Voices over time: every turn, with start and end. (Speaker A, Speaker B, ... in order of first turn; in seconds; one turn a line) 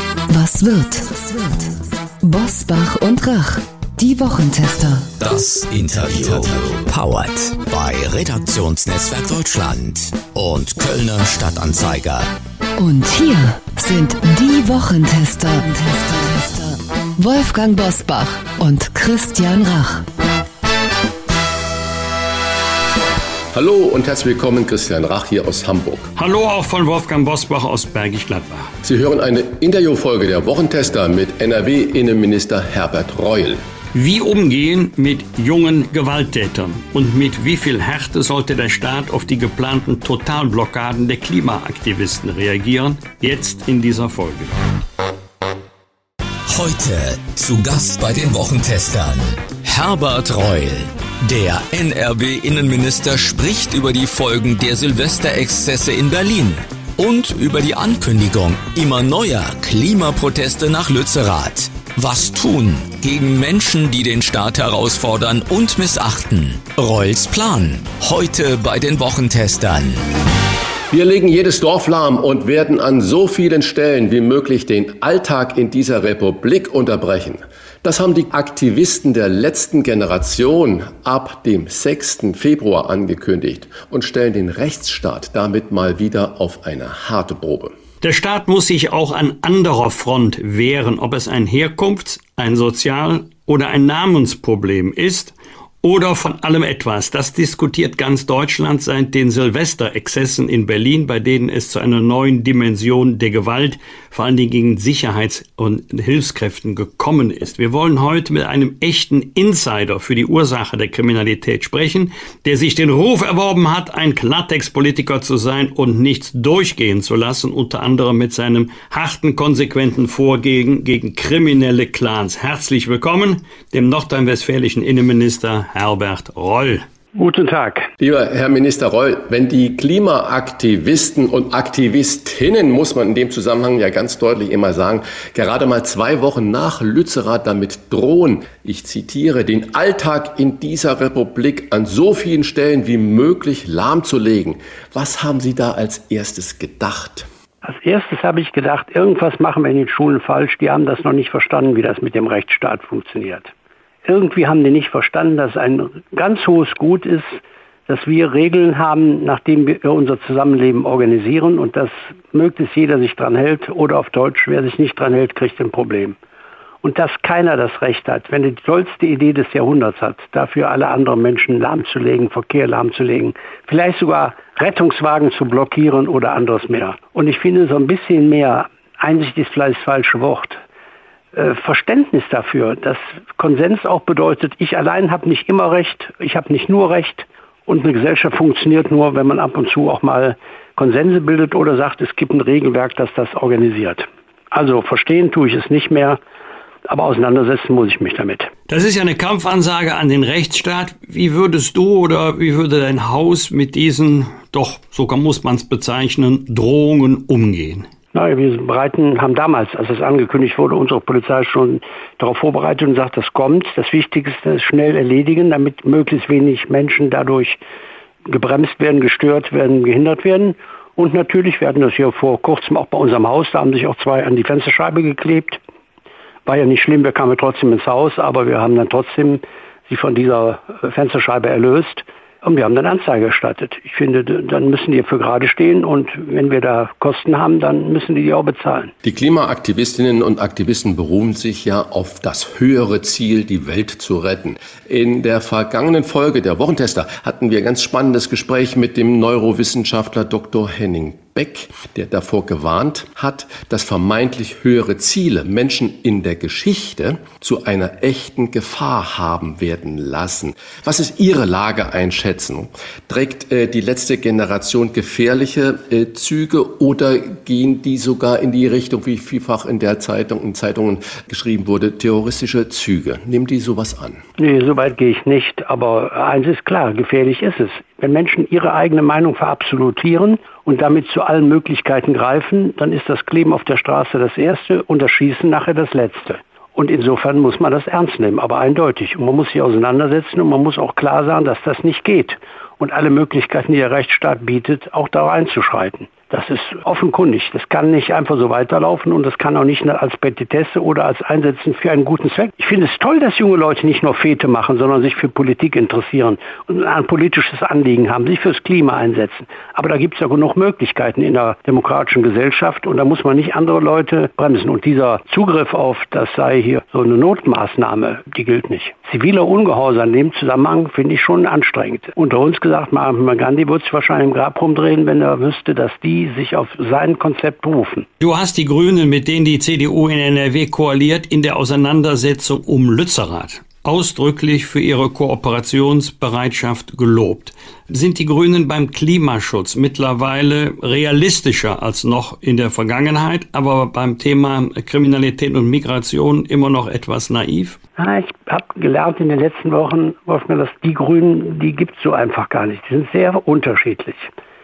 Speaker A: 0.3-5.1
Speaker B: 5.2-12.3
Speaker A: 12.8-20.1
Speaker C: 23.5-26.1
Speaker D: 26.1-28.7
Speaker C: 28.8-33.6
Speaker D: 33.9-44.5
Speaker B: 46.5-70.0
Speaker C: 70.9-87.7
Speaker D: 88.0-126.8
Speaker E: 127.1-127.9
Speaker C: 128.0-147.3
Speaker E: 147.6-153.5
Speaker E: 154.1-166.2
Speaker E: 166.8-180.6
Speaker E: 181.3-196.2
Speaker E: 196.9-198.5
Speaker D: 198.7-207.9
Speaker E: 208.1-217.6
Speaker E: 218.2-225.6
Speaker E: 226.4-238.9
Speaker C: 239.0-274.2
Speaker E: 274.4-328.1
Speaker D: 328.2-347.8
Speaker E: 348.0-354.3